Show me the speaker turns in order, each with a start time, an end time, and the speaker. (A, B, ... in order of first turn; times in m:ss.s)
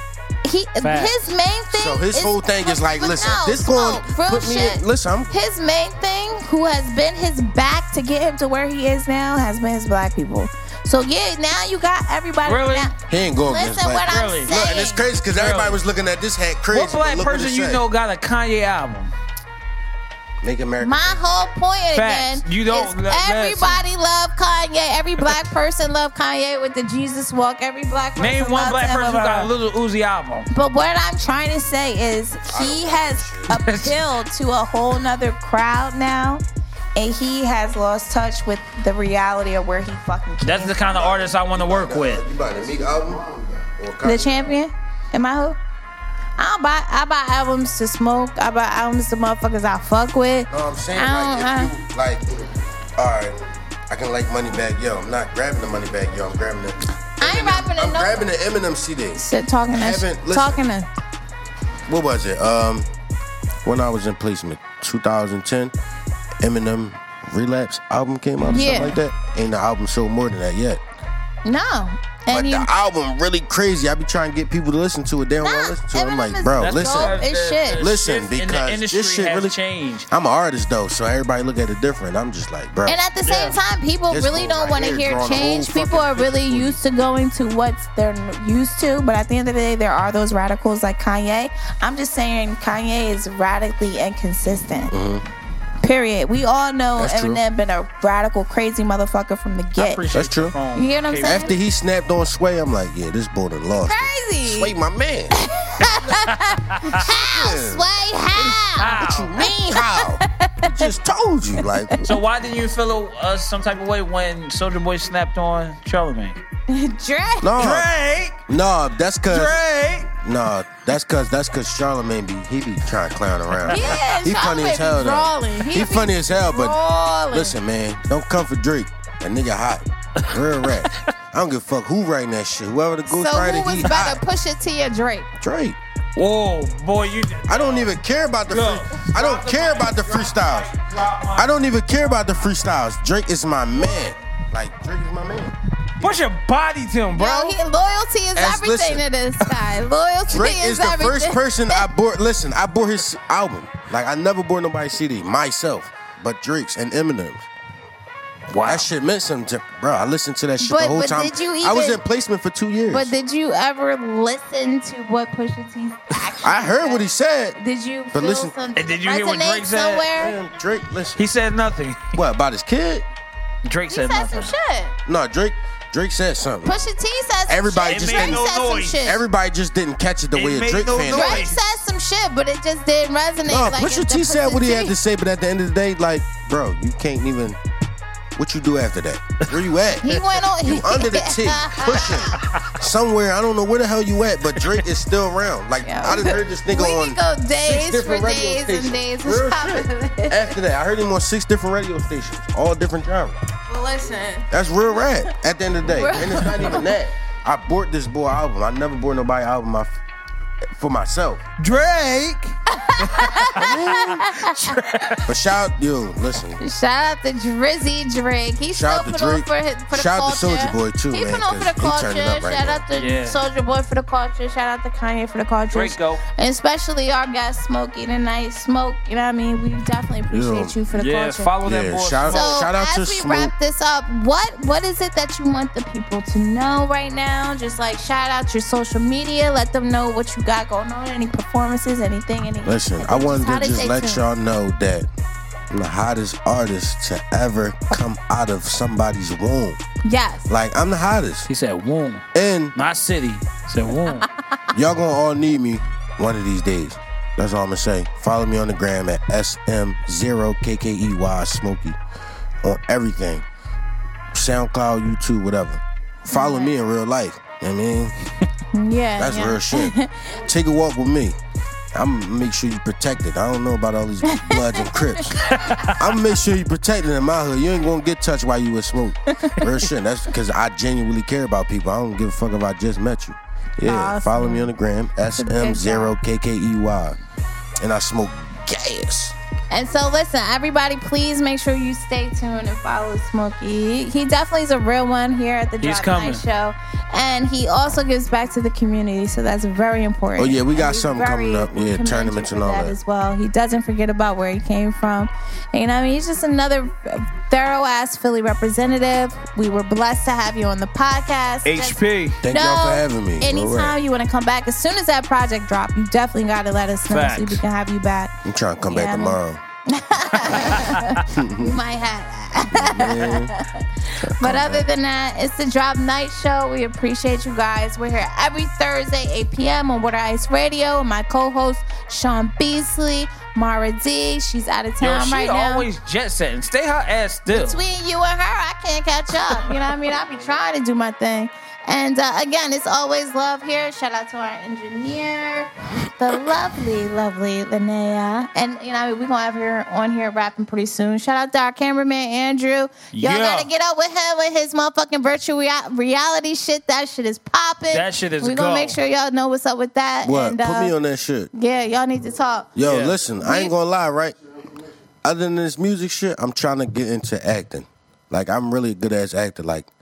0:00.4-0:15.0 A
0:00.8-0:01.2 B
0:01.7-0:05.3 C
0:12.4-0:12.9 B
0:13.1-0:17.8 C
0:14.1-0:14.6 B
0:15.3-0:15.8 B
0:16.7-0:19.1 B
0:20.4-0:21.3 C
0:20.8-0:29.5 A
0:21.9-0:23.8 B
0:28.2-0:30.5 B
0:30.5-0:36.4 A
0:32.5-0:33.6 C
0:33.5-0:34.0 B
0:37.0-0:40.8 A
0:40.4-0:42.2 B
0:40.8-0:44.5 C
0:44.0-0:45.6 A
0:46.4-0:51.8 A
0:50.5-0:52.2 C
0:53.0-1:00.7 C
0:57.2-0:58.3 A
0:59.2-1:00.9 A
1:01.9-1:02.9 C
1:03.6-1:05.7 C
1:06.4-1:10.8 C
1:08.4-1:09.0 A
1:11.4-1:12.7 A
1:12.3-1:17.2 C
1:15.4-1:17.8 A
1:16.6-1:20.1 B
1:17.8-1:19.6 C
1:20.1-1:23.0 C
1:22.9-1:34.9 A
1:23.2-1:23.6 B
1:24.1-1:26.8 C
1:34.9-1:35.2 C
1:35.8-1:40.0 A
1:37.0-1:37.4 C
1:39.8-1:41.6 B
1:40.1-1:40.6 C
1:40.7-1:41.5 A
1:41.2-1:46.3 C
1:43.8-1:44.7 A
1:45.3-1:50.7 A
1:46.5-1:47.0 B
1:46.8-1:52.0 C
1:48.8-1:49.4 B
1:52.0-1:56.4 B
1:56.7-1:57.5 A
1:57.4-1:57.9 C
1:57.6-1:58.4 B
1:58.5-1:59.6 C
1:59.3-2:00.1 B
2:00.2-2:06.8 C
2:03.6-2:03.9 B
2:03.7-2:07.6 A
2:07.3-2:14.2 C
2:10.3-2:11.1 B
2:13.1-2:15.3 A
2:15.4-2:15.8 C
2:16.2-2:17.9 B
2:17.5-2:20.7 C
2:18.5-2:21.6 B
2:21.4-2:25.5 C
2:26.0-2:27.6 B
2:27.1-2:31.9 A
2:28.4-2:29.6 C
2:30.3-2:37.5 C
2:38.5-2:38.9 B
2:38.6-2:43.1 C
2:40.6-2:42.0 A
2:42.9-2:47.1 A
2:46.4-2:47.6 C
2:47.6-2:50.4 A
2:48.1-2:48.5 C
2:48.8-2:50.1 B
2:50.2-2:51.2 C
2:51.2-2:52.1 B
2:52.1-2:53.1 C
2:53.6-2:54.5 B
2:53.9-2:55.0 A
2:55.1-2:56.8 C
2:56.6-2:59.2 A
2:57.5-2:58.5 C
2:57.9-2:59.0 B
2:59.0-3:01.6 C
3:00.3-3:01.7 B
3:01.1-3:05.0 A
3:03.4-3:07.6 C
3:08.4-3:23.4 C
3:10.0-3:12.4 A
3:12.4-3:12.7 B
3:15.8-3:20.6 A
3:23.7-3:25.0 A
3:24.5-3:29.9 C
3:25.9-3:26.9 A
3:30.7-3:31.4 C
3:31.6-3:35.3 B
3:32.7-3:34.8 A
3:35.2-3:36.6 C
3:36.6-3:51.5 A
3:38.7-3:42.8 C
3:43.0-3:43.4 B
3:45.7-3:46.2 B
3:50.3-3:50.8 C
3:50.9-3:52.7 B
3:51.6-3:53.5 C
3:52.3-4:04.2 A
4:02.6-4:05.1 C
4:05.7-4:09.8 C
4:10.0-4:10.5 A
4:10.5-4:11.5 C
4:11.5-4:14.3 B
4:12.3-4:12.8 C
4:14.7-4:22.0 C
4:22.6-4:23.4 C
4:24.3-4:28.1 C
4:26.3-4:26.7 A
4:28.7-4:30.3 A
4:29.2-4:31.4 C
4:31.9-4:47.2 C
4:34.3-4:35.2 A
4:35.5-4:35.9 B
4:43.8-4:44.7 A
4:45.4-4:46.2 A
4:47.8-4:49.4 C
4:49.7-5:12.0 A
4:55.8-4:56.4 B
5:00.4-5:03.0 C
5:11.6-5:12.4 B
5:12.4-5:14.0 C
5:12.5-5:19.4 A
5:17.1-5:17.6 B
5:18.4-5:19.6 C
5:19.9-5:35.9 A
5:20.6-5:21.2 B
5:21.3-5:21.8 C
5:22.7-5:23.6 C
5:24.2-5:24.9 C
5:35.0-5:37.8 B
5:37.5-6:00.9 A
5:53.1-5:53.7 B
5:57.9-5:59.0 B
6:00.2-6:01.5 C
6:01.5-6:02.7 A
6:02.8-6:04.4 C
6:02.8-6:03.2 B
6:03.4-6:03.7 A
6:05.2-6:09.9 C